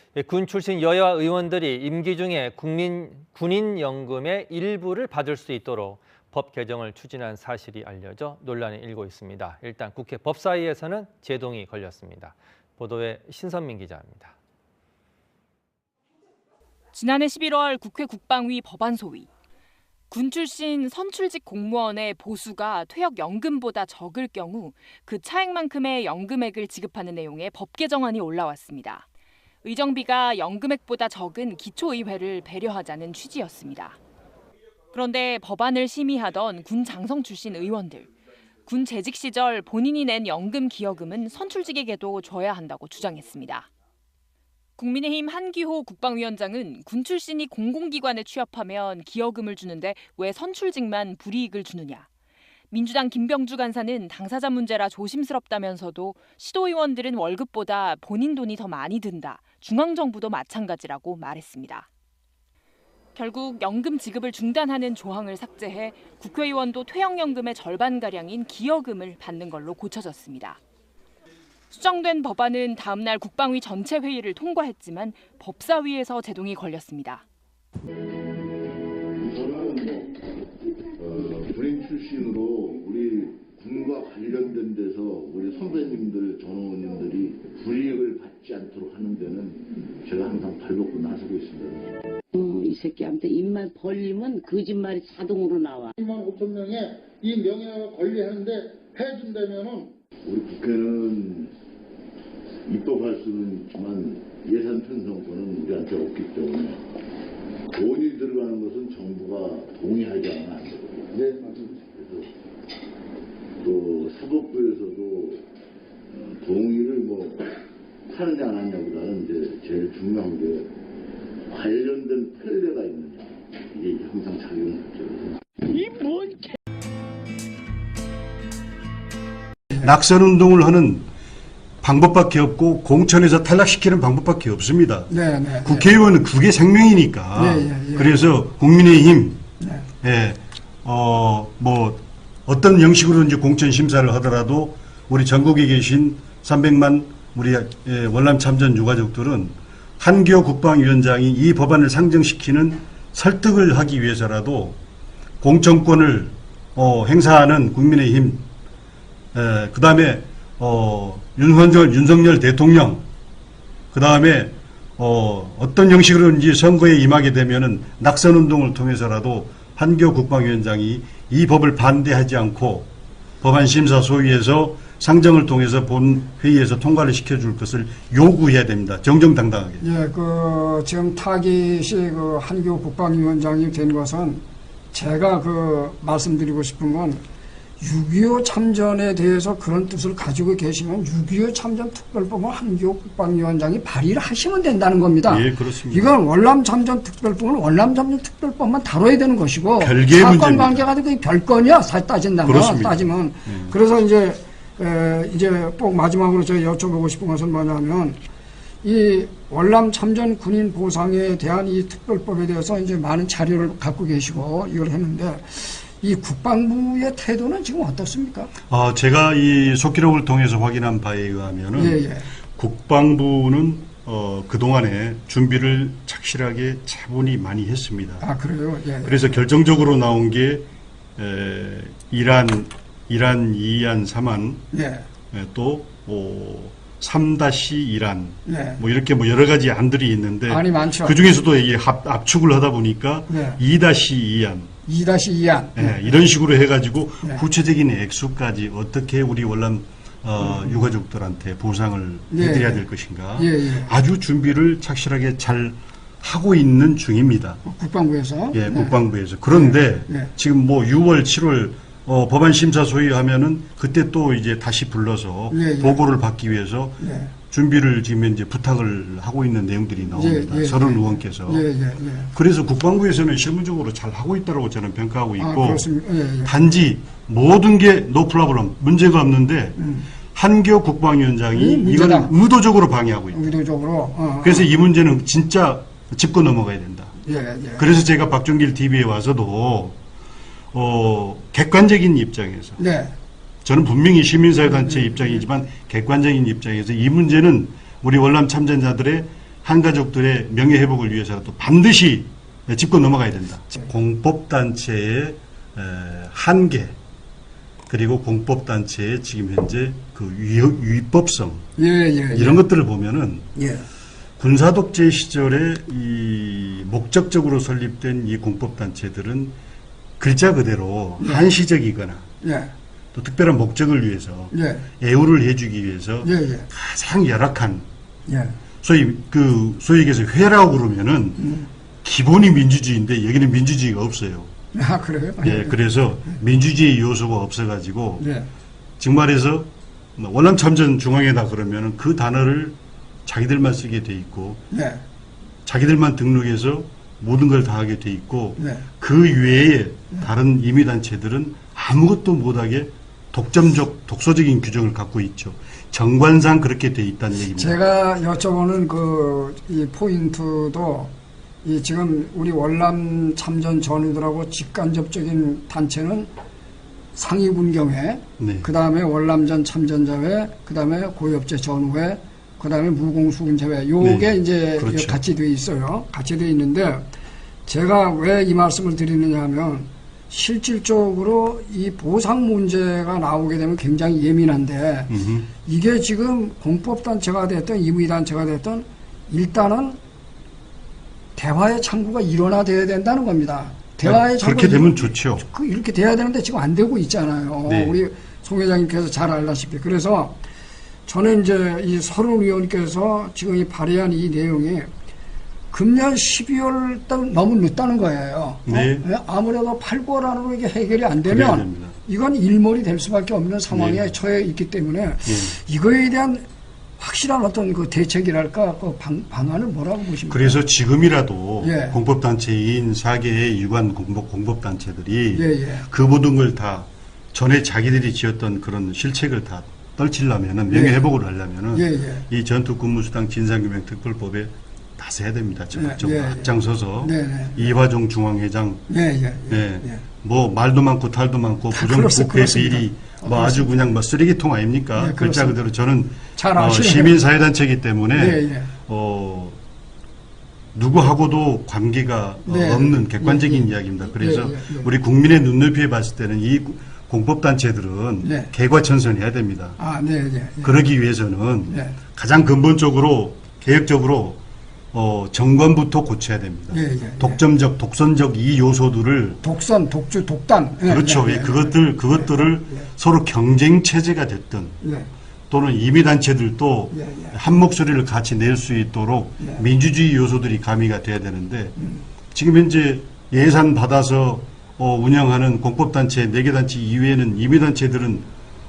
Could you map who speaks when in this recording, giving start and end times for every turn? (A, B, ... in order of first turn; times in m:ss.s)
0:00.2-0:14.4 A
0:16.9-0:19.3 B
0:20.1-0:29.1 B
0:29.6-0:34.0 B
0:34.9-0:38.1 B
0:38.7-0:43.7 B
0:44.8-0:52.1 B
0:52.7-1:01.9 B
1:03.2-1:10.6 B
1:11.7-1:17.2 B
1:19.2-1:20.2 C
1:21.0-1:32.0 C
1:32.3-1:35.9 D
1:36.0-1:39.9 E
1:40.2-1:41.5 C
1:42.7-1:46.8 C
1:47.7-1:52.3 C
1:51.1-1:51.5 E
1:53.6-1:55.5 C
1:56.1-1:57.5 C
1:58.1-2:00.8 C
2:01.5-2:05.7 C
2:09.8-2:11.1 F
2:11.8-2:19.4 F
2:15.1-2:15.9 G
2:17.4-2:18.2 G
2:20.0-2:34.8 F
2:35.4-2:38.4 F
2:39.3-2:43.0 F
2:43.9-2:52.9 F
2:53.4-2:59.8 F
2:59.8-3:07.2 G
3:07.8-3:28.2 G
3:15.3-3:16.2 F
3:19.8-3:20.8 F
3:22.4-3:23.8 F
3:28.8-3:38.5 G
3:38.7-3:42.0 F
3:41.8-3:42.3 G
3:42.6-3:48.2 F
3:48.2-3:49.2 G
3:49.0-3:54.6 F
3:54.7-3:55.0 G
3:55.3-4:04.7 F
3:58.5-3:58.8 G
4:00.5-4:01.2 G
4:03.3-4:03.6 G
4:04.9-4:06.0 G
4:05.8-4:17.6 F
4:12.3-4:12.8 G
4:13.4-4:13.9 G
4:17.6-4:19.0 G
4:18.5-4:31.6 F
4:19.5-4:20.3 G
4:25.5-4:26.0 G
4:27.0-4:27.3 G
4:30.2-4:32.3 G
4:32.3-4:35.9 F
4:35.4-4:36.5 G
4:36.4-4:39.8 F
4:39.8-4:40.1 G
4:40.3-4:43.6 F
4:41.5-4:42.3 G
4:43.3-4:44.7 G
4:44.4-4:47.1 F
4:47.2-4:47.9 G
4:47.8-4:50.0 F
4:50.7-4:52.8 F
4:52.8-4:53.1 G
4:53.6-5:07.0 F
5:07.9-5:11.7 F
5:11.8-5:12.6 G
5:12.3-5:13.5 F
5:13.6-5:13.9 G
5:14.4-5:19.6 F
5:20.2-5:22.3 F
5:21.2-5:21.5 G
5:22.4-5:22.7 G
5:23.1-5:27.9 F
5:24.5-5:24.9 G
5:26.2-5:26.7 G
5:28.3-5:28.6 G
5:28.8-5:31.5 F
5:31.4-5:31.7 G
5:32.0-5:34.5 F
5:34.7-5:35.8 G
5:35.4-5:38.3 F
5:38.2-5:38.5 G
5:39.0-5:44.6 F
5:44.7-5:45.0 G
5:45.7-5:57.8 F
5:48.6-5:48.8 G
5:57.5-6:01.1 G
6:01.6-6:06.3 G
6:07.1-6:17.1 G
6:08.4-6:08.7 F
6:14.0-6:15.2 F
6:17.7-6:25.1 G
6:25.1-6:25.5 F
6:25.6-6:30.0 G
6:31.4-6:40.4 G
6:34.0-6:35.4 F
6:37.6-6:38.0 F
6:41.1-6:44.9 G
6:45.7-6:56.5 G
6:48.7-6:49.1 F
6:51.2-6:52.0 F
6:53.7-6:54.1 F
6:55.3-6:55.6 F
6:57.0-7:00.6 G
7:00.3-7:18.8 F
7:01.6-7:02.0 G
7:05.3-7:05.8 G
7:10.7-7:11.0 G
7:11.7-7:12.3 G
7:15.8-7:17.7 G
7:18.9-7:20.0 G
7:19.5-7:29.6 F
7:21.7-7:23.8 G
7:25.0-7:25.6 G
7:26.4-7:27.2 G
7:28.2-7:28.7 G
7:30.7-7:39.8 F
7:32.5-7:34.9 G
7:38.2-7:38.5 G
7:39.8-7:40.7 G
7:40.6-7:44.4 F
7:41.7-7:42.0 G
7:44.9-7:49.4 F
7:46.7-7:47.4 G
7:49.4-7:52.8 G
7:50.8-7:54.8 F
7:54.8-7:55.1 G
7:55.5-8:01.8 F
7:56.9-7:57.4 G
8:02.3-8:08.3 F